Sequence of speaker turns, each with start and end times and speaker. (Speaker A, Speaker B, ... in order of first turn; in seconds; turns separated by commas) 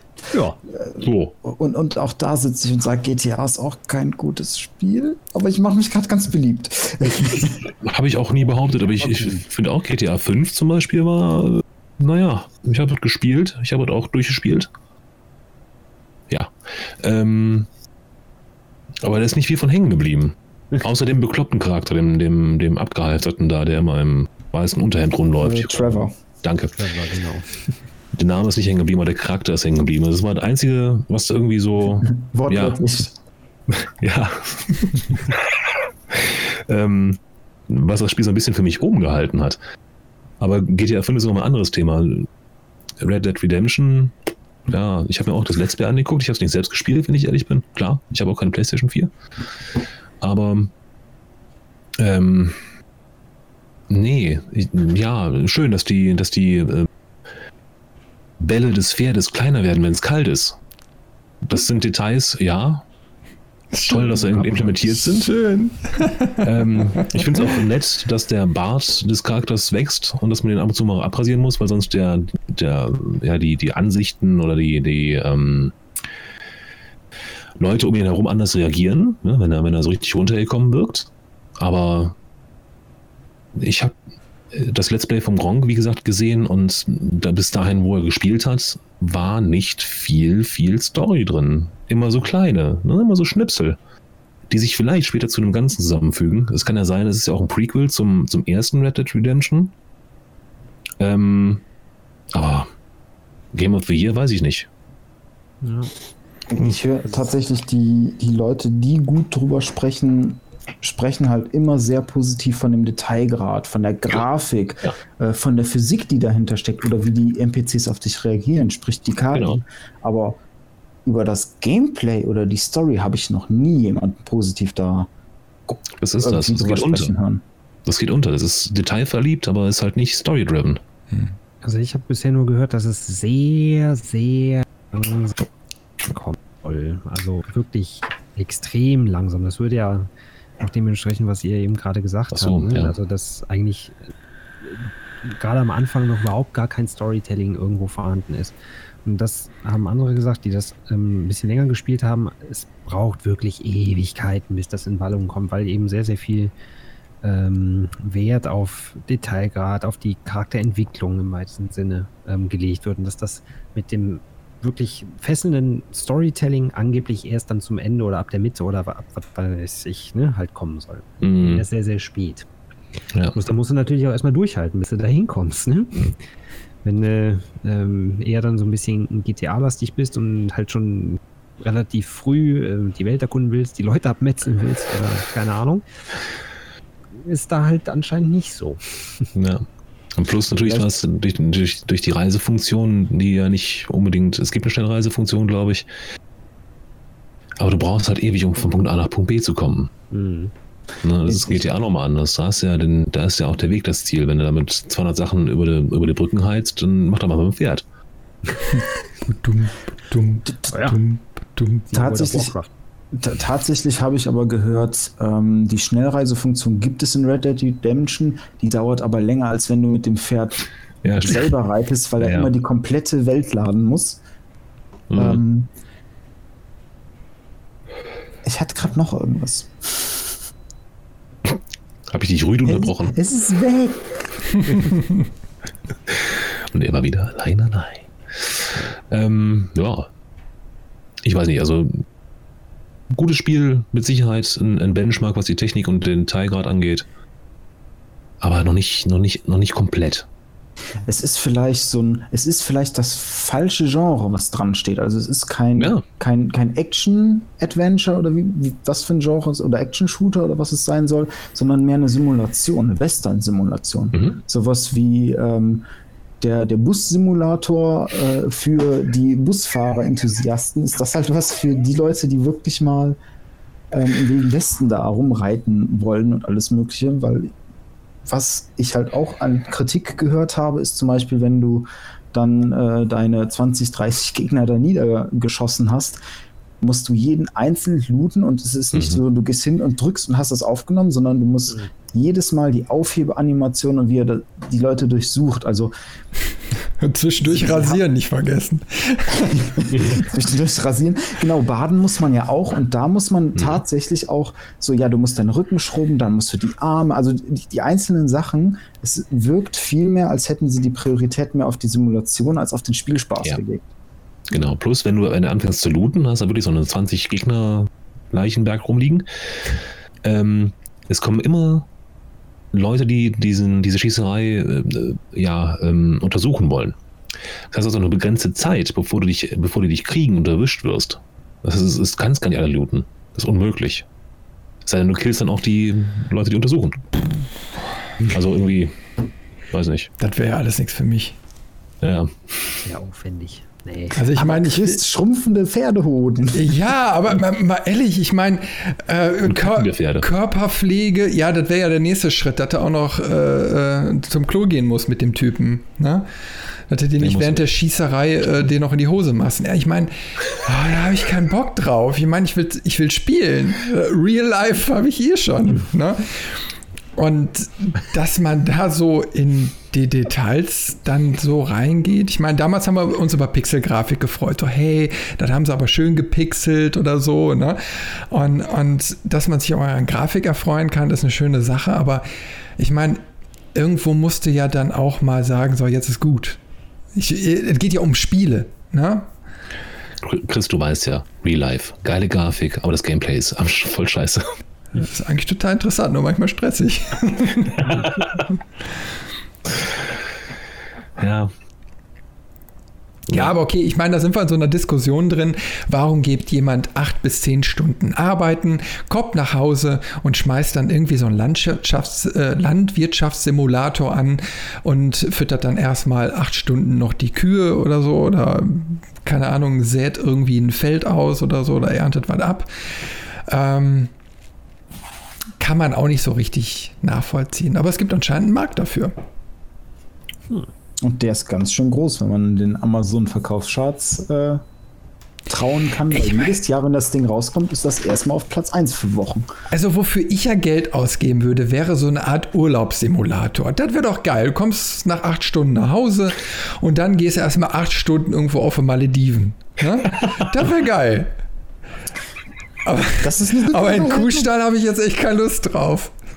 Speaker A: 0.3-0.6, Speaker B: 0.7-7.7, Speaker C: 1.0-1.3, Speaker C: 7.8-14.7, Speaker A: 9.0-9.4, Speaker C: 16.3-17.7, Speaker C: 19.0-26.8, Speaker B: 25.4-26.1, Speaker A: 26.7-27.7, Speaker C: 28.1-32.8, Speaker B: 32.1-33.1, Speaker C: 33.7-39.6, Speaker C: 40.4-42.3, Speaker C: 43.0-44.1, Speaker C: 44.7-49.1, Speaker C: 50.2-50.7, Speaker C: 52.0-52.6, Speaker C: 53.9-56.9, Speaker C: 58.4-60.6, Speaker C: 61.4-62.8, Speaker D: 63.7-67.5, Speaker C: 63.8-65.3, Speaker C: 66.4-75.7, Speaker C: 77.6-82.2, Speaker C: 83.5-83.9, Speaker C: 84.5-93.8, Speaker C: 94.5-99.7, Speaker C: 101.0-101.6, Speaker C: 102.3-102.7, Speaker C: 103.5-104.7, Speaker A: 105.6-105.9, Speaker B: 106.5-120.4, Speaker C: 119.3-119.6, Speaker B: 121.0-125.1, Speaker B: 125.7-127.4, Speaker C: 126.0-127.1, Speaker C: 127.8-130.8, Speaker A: 131.6-135.4, Speaker A: 136.0-144.0, Speaker C: 142.3-142.9, Speaker A: 144.6-156.5, Speaker A: 157.2-172.4, Speaker C: 171.2-171.6, Speaker A: 173.3-176.1, Speaker A: 176.8-185.8, Speaker A: 187.1-189.3, Speaker C: 189.3-195.9, Speaker B: 190.6-190.8, Speaker C: 197.6-199.9, Speaker A: 200.1-200.5, Speaker C: 201.0-207.8, Speaker B: 201.3-201.7, Speaker D: 209.3-211.9, Speaker B: 210.4-210.7, Speaker A: 210.7-211.0, Speaker A: 211.9-212.7, Speaker B: 211.9-212.5, Speaker B: 213.1-220.7, Speaker C: 221.0-221.5, Speaker B: 221.2-224.2, Speaker C: 222.2-222.5, Speaker C: 225.1-225.4, Speaker B: 225.2-225.7, Speaker B: 228.4-230.3, Speaker C: 232.1-233.2, Speaker B: 232.6-234.7, Speaker C: 236.1-240.1, Speaker C: 241.2-242.0, Speaker C: 243.1-247.1, Speaker C: 248.4-250.3, Speaker B: 251.0-265.8, Speaker C: 255.8-256.0, Speaker B: 266.4-273.2, Speaker B: 273.9-277.5, Speaker B: 278.2-286.2, Speaker B: 286.8-295.9, Speaker D: 297.0-300.0, Speaker B: 297.4-298.0, Speaker B: 299.6-313.8, Speaker C: 314.5-319.7, Speaker C: 320.2-321.9, Speaker C: 322.7-327.0, Speaker C: 327.7-334.0, Speaker C: 334.8-337.1, Speaker C: 338.2-338.9, Speaker C: 339.7-340.1, Speaker D: 340.2-341.4, Speaker C: 342.0-342.8, Speaker A: 342.8-344.3, Speaker D: 344.1-344.9, Speaker B: 344.3-346.7, Speaker D: 346.5-356.2, Speaker C: 349.5-350.2, Speaker D: 356.9-366.6, Speaker C: 357.2-357.6, Speaker D: 367.2-382.2, Speaker D: 382.8-383.2, Speaker D: 383.7-386.6, Speaker D: 387.1-389.3, Speaker C: 390.2-394.5, Speaker D: 394.9-398.1, Speaker C: 397.8-398.3, Speaker C: 401.2-401.5, Speaker D: 403.3-422.7, Speaker D: 423.4-424.1, Speaker D: 425.6-429.1, Speaker B: 431.0-434.6, Speaker B: 435.5-439.5, Speaker D: 436.1-436.6, Speaker D: 439.7-451.3, Speaker D: 452.9-456.1, Speaker B: 453.2-454.5